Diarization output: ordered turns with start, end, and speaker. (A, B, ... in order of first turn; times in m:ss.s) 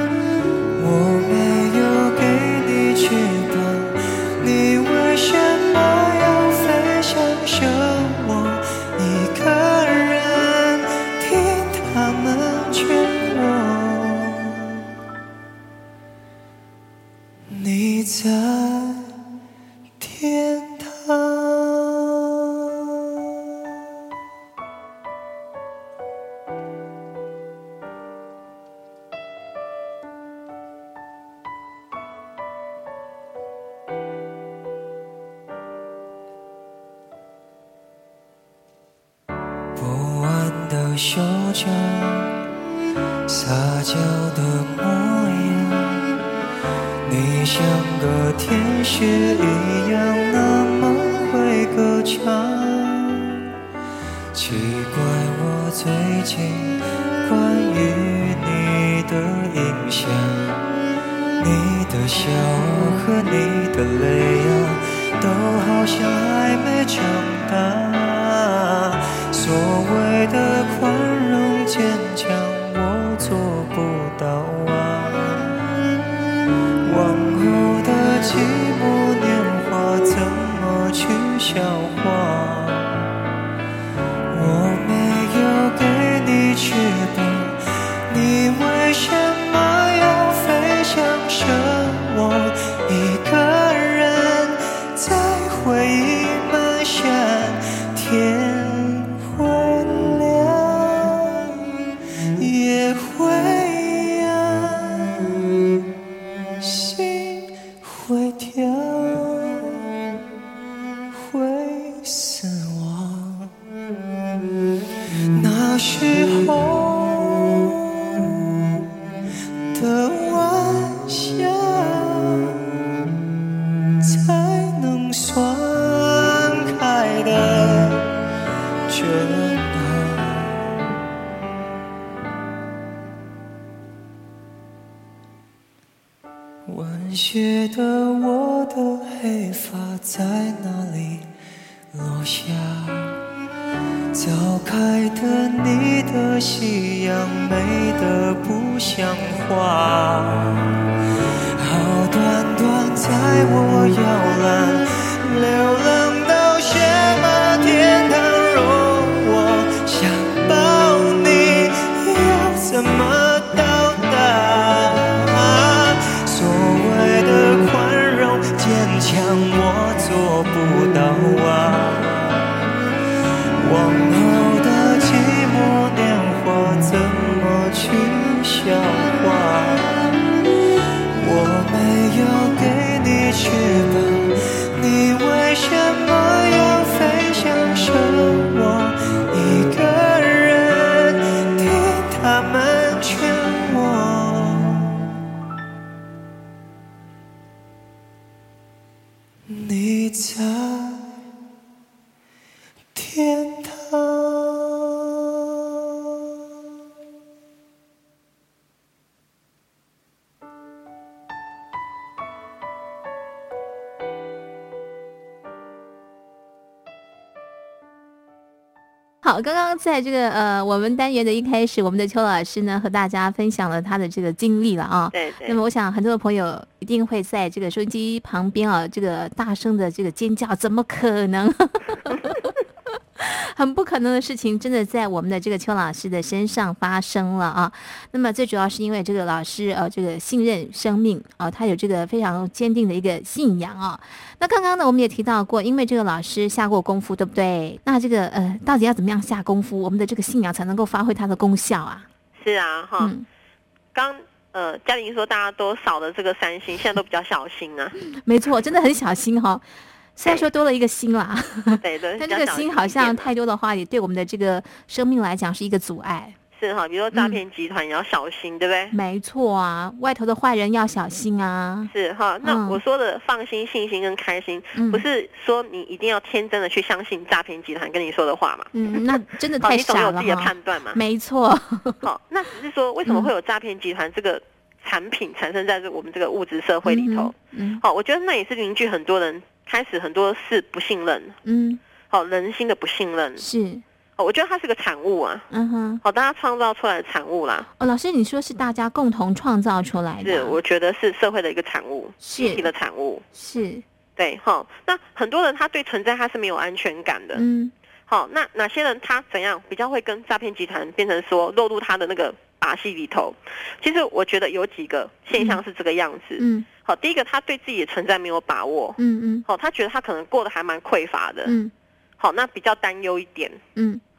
0:00.8-0:14.6 A
0:17.5-0:19.1 A
0:20.0-0:22.2 A
0:39.8-0:42.4 A
0:43.3-0:46.1 A
0:47.0-0:53.4 A
0:54.3-1:00.6 A
1:01.4-1:15.6 A
1:16.8-1:23.1 A
1:24.3-1:41.5 A
1:42.4-1:45.4 A
1:46.6-1:49.8 A
1:51.1-1:53.5 A
1:55.3-1:57.8 A
1:59.7-2:02.5 A
2:04.0-2:08.1 A
2:08.9-2:10.7 A
2:16.7-2:21.3 A
2:21.9-2:23.2 A
2:24.1-2:30.8 A
2:31.6-2:52.5 A
2:53.6-3:00.1 A
3:01.2-3:15.0 A
3:19.5-3:21.2 A
3:22.9-3:25.1 A
3:39.2-3:52.5 B
3:45.1-3:45.6 C
3:53.2-4:12.1 B
4:12.4-4:13.1 C
4:13.0-4:13.3 B
4:13.9-4:18.0 C
4:18.0-4:19.6 B
4:20.2-4:26.4 B
4:21.8-4:23.3 C
4:26.6-4:29.0 C
4:27.1-4:27.4 B
4:28.9-4:31.9 B
4:31.9-4:41.0 C
4:32.4-4:32.8 B
4:34.8-4:35.0 B
4:38.7-4:42.0 B
4:42.0-4:51.4 C
4:46.8-4:47.8 B
4:51.4-4:51.8 B
4:52.1-4:53.4 C
4:53.4-4:53.8 B
4:54.2-4:55.5 C
4:55.5-4:56.0 B
4:56.0-4:57.7 C
4:57.8-5:00.6 B
5:00.2-5:03.2 C
5:02.2-5:02.7 B
5:03.3-5:03.8 B
5:04.2-5:07.4 C
5:07.4-5:07.7 B
5:08.1-5:21.5 C
5:16.4-5:16.7 B
5:19.0-5:19.5 B
5:21.5-5:21.7 B
5:22.2-5:23.6 C
5:23.8-5:24.0 B